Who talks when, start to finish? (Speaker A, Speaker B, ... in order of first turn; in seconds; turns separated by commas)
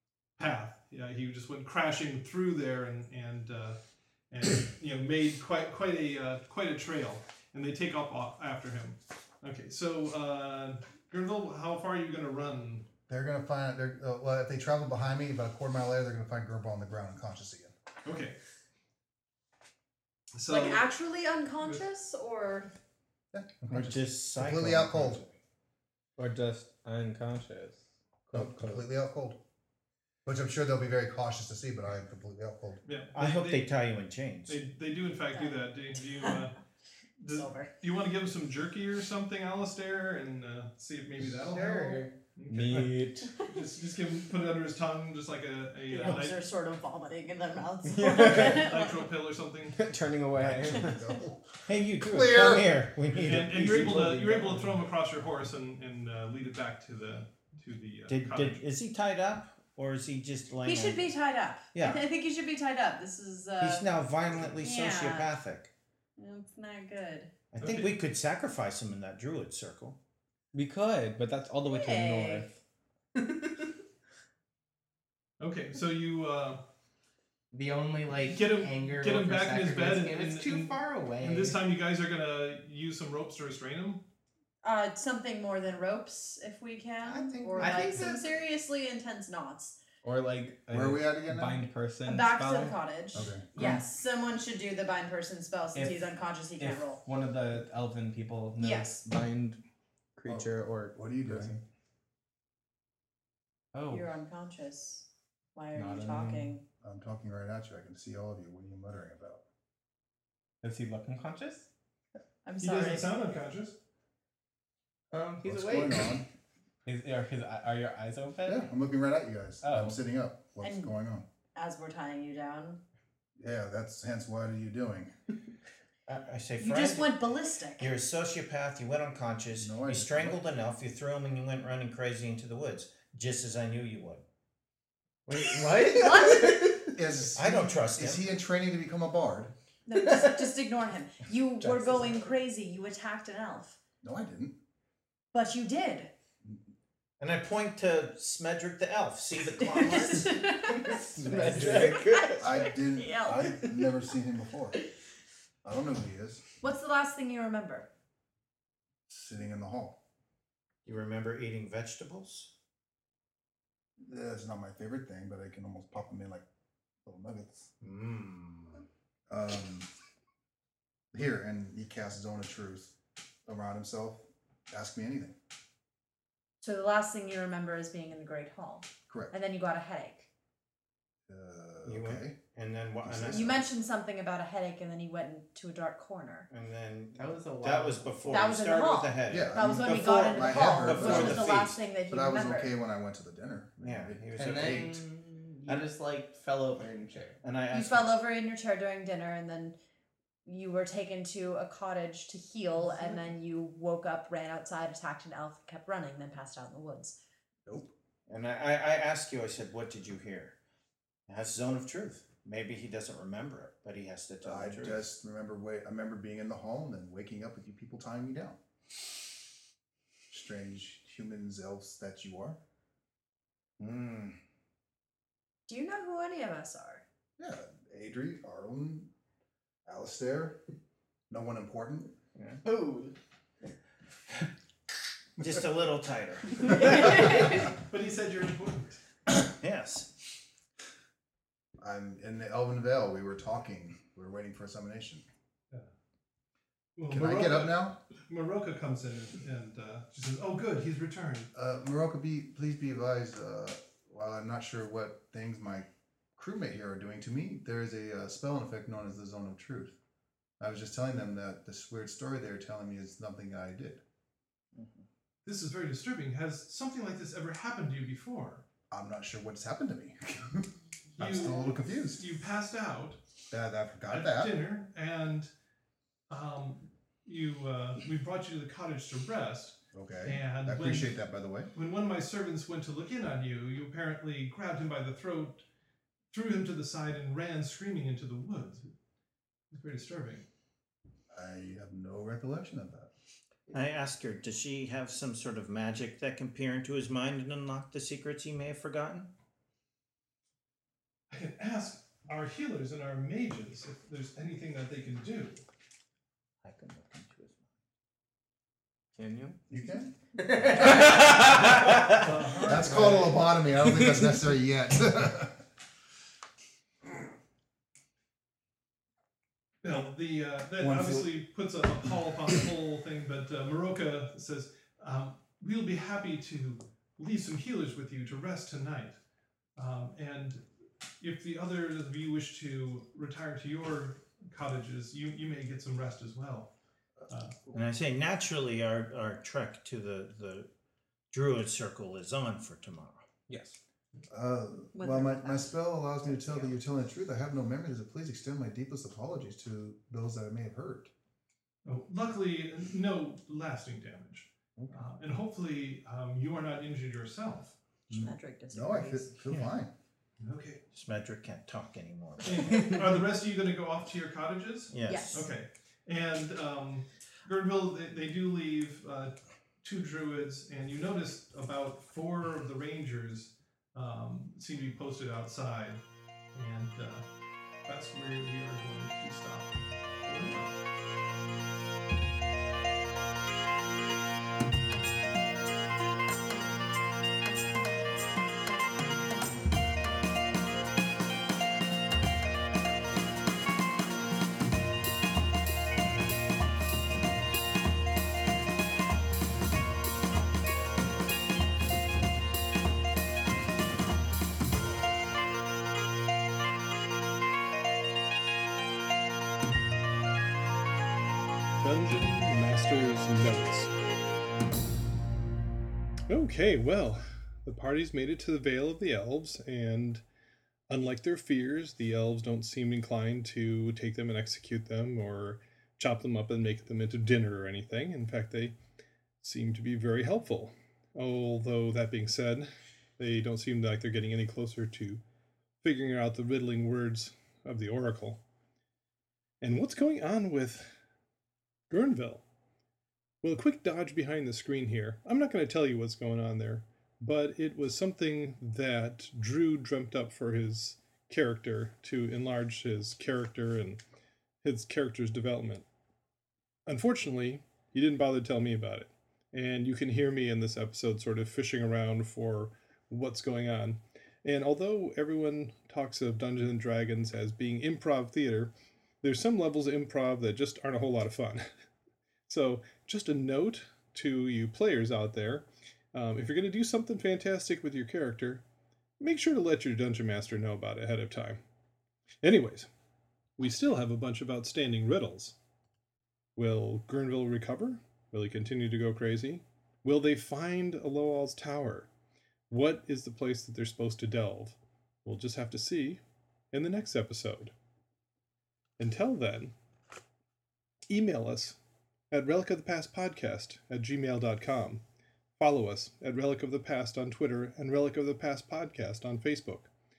Speaker A: 0.4-3.8, Speaker A: 4.3-12.9, Speaker B: 13.1-17.7, Speaker A: 18.0-18.4, Speaker A: 20.3-20.8, Speaker C: 20.5-22.7, Speaker B: 23.3-25.2, Speaker D: 23.7-25.3, Speaker E: 26.2-28.9, Speaker B: 28.3-29.4, Speaker B: 30.2-32.8, Speaker A: 32.8-33.7, Speaker D: 33.1-34.6, Speaker A: 34.5-36.5, Speaker C: 35.3-36.4, Speaker A: 37.2-46.4, Speaker C: 37.3-37.7, Speaker F: 41.5-42.1, Speaker E: 42.5-43.3, Speaker C: 45.9-49.0, Speaker E: 47.9-48.7, Speaker A: 48.3-49.8, Speaker E: 49.7-51.1, Speaker B: 50.4-51.4, Speaker C: 50.6-51.1, Speaker D: 51.6-54.0, Speaker B: 52.0-52.8, Speaker E: 52.0-52.6, Speaker A: 53.2-58.6, Speaker E: 53.4-54.8, Speaker D: 58.1-61.1, Speaker C: 60.6-65.3, Speaker D: 61.7-62.0, Speaker D: 63.6-65.7, Speaker C: 66.2-67.3, Speaker D: 67.5-70.0, Speaker A: 67.6-67.9, Speaker E: 70.5-72.5, Speaker C: 71.7-72.5, Speaker F: 73.2-73.7, Speaker A: 75.4-76.6, Speaker F: 77.5-81.6, Speaker A: 78.3-84.0, Speaker C: 84.6-89.8, Speaker F: 87.0-88.3, Speaker E: 87.5-88.1, Speaker E: 90.0-92.8, Speaker B: 90.7-91.7, Speaker C: 92.0-97.0, Speaker B: 93.1-93.5, Speaker E: 95.7-96.0, Speaker E: 96.6-99.6, Speaker C: 98.6-98.9, Speaker E: 100.2-101.6, Speaker B: 100.3-101.6, Speaker E: 103.7-104.1, Speaker C: 103.9-106.6, Speaker E: 105.7-106.5, Speaker B: 106.8-109.4, Speaker E: 110.6-111.7, Speaker C: 112.4-113.1, Speaker A: 112.6-113.8, Speaker F: 115.1-116.1, Speaker B: 115.4-116.3, Speaker E: 116.8-118.7, Speaker B: 118.5-121.2, Speaker E: 119.6-120.0, Speaker C: 120.6-120.9, Speaker C: 121.5-122.8, Speaker B: 123.4-125.1, Speaker D: 126.1-127.2, Speaker C: 126.6-127.9, Speaker D: 127.8-134.2, Speaker B: 129.5-130.4, Speaker F: 135.3-136.9, Speaker C: 135.9-136.8, Speaker B: 136.9-139.5, Speaker D: 137.3-138.2, Speaker C: 139.8-143.8, Speaker E: 141.6-142.2, Speaker B: 144.0-144.6, Speaker C: 145.3-146.1, Speaker D: 147.2-150.4, Speaker C: 149.6-153.7, Speaker E: 150.8-152.4, Speaker B: 151.2-154.8, Speaker F: 151.4-152.4, Speaker B: 155.6-156.4, Speaker C: 156.6-157.9, Speaker B: 159.1-160.0, Speaker D: 160.8-162.5, Speaker B: 164.0-166.4, Speaker B: 167.0-167.7, Speaker D: 167.8-168.8, Speaker B: 169.3-169.9, Speaker B: 171.1-172.9, Speaker B: 173.4-175.3, Speaker C: 176.6-180.3, Speaker B: 181.3-182.4, Speaker D: 181.8-183.6, Speaker B: 183.0-183.6, Speaker C: 183.3-186.5, Speaker D: 186.5-191.8, Speaker F: 187.1-188.3, Speaker C: 188.3-192.7, Speaker B: 189.3-191.6, Speaker B: 192.1-194.9, Speaker D: 193.8-195.0, Speaker F: 194.3-197.4, Speaker D: 197.4-198.1, Speaker C: 197.7-199.8, Speaker C: 200.4-207.2, Speaker B: 207.7-207.9, Speaker D: 208.3-210.6, Speaker D: 211.3-215.0, Speaker B: 214.4-218.6, Speaker B: 220.3-222.6, Speaker D: 223.8-224.4, Speaker C: 225.7-227.0, Speaker B: 227.4-229.1, Speaker B: 229.8-230.6, Speaker B: 231.3-232.1, Speaker D: 232.3-232.6, Speaker F: 232.6-233.1, Speaker D: 235.4-237.4, Speaker C: 236.8-237.4, Speaker A: 237.7-239.0, Speaker D: 239.4-240.2, Speaker B: 241.8-245.2, Speaker A: 246.9-251.5, Speaker B: 247.1-248.0, Speaker B: 251.5-260.0, Speaker B: 260.6-264.0, Speaker D: 264.7-265.0, Speaker A: 265.4-268.6, Speaker B: 268.9-272.2, Speaker A: 271.1-273.2, Speaker B: 273.5-274.5, Speaker A: 274.1-275.5, Speaker A: 276.3-281.1, Speaker B: 279.9-281.7, Speaker A: 281.7-285.6, Speaker A: 286.3-288.9, Speaker A: 289.7-290.4, Speaker B: 291.3-293.1, Speaker D: 293.7-299.3, Speaker A: 301.3-305.6, Speaker D: 306.6-307.6, Speaker E: 309.1-309.6, Speaker B: 309.7-310.1, Speaker F: 310.6-311.4, Speaker D: 311.2-312.1, Speaker A: 312.1-313.4, Speaker B: 312.6-315.6, Speaker A: 319.8-329.2, Speaker B: 320.8-321.4, Speaker A: 329.8-330.6, Speaker A: 331.2-336.7, Speaker B: 337.2-337.8, Speaker A: 337.3-337.5, Speaker D: 337.7-340.7, Speaker D: 341.3-343.2, Speaker E: 343.5-343.8, Speaker B: 344.3-351.1, Speaker C: 344.9-346.7, Speaker A: 351.8-357.8, Speaker B: 358.1-359.9, Speaker C: 358.1-359.3, Speaker A: 360.4-360.8, Speaker D: 360.9-363.1, Speaker A: 362.4-376.0, Speaker D: 364.9-365.5, Speaker C: 365.1-365.4, Speaker A: 376.5-377.2, Speaker A: 377.9-379.7, Speaker A: 380.2-380.8, Speaker A: 411.8-413.9, Speaker A: 416.3-420.2, Speaker A: 420.9-428.8, Speaker A: 429.4-435.2, Speaker A: 435.8-438.4, Speaker A: 439.6-440.9, Speaker A: 441.9-442.4, Speaker A: 443.4-454.0, Speaker A: 454.6-455.9, Speaker A: 456.9-471.7, Speaker A: 472.5-478.6, Speaker A: 479.2-481.6, Speaker A: 482.4-482.9, Speaker A: 483.6-485.6, Speaker A: 486.6-492.1, Speaker A: 492.7-496.2, Speaker A: 496.7-497.7, Speaker A: 499.0-499.7, Speaker A: 501.1-501.8, Speaker A: 502.3-505.0, Speaker A: 505.6-509.9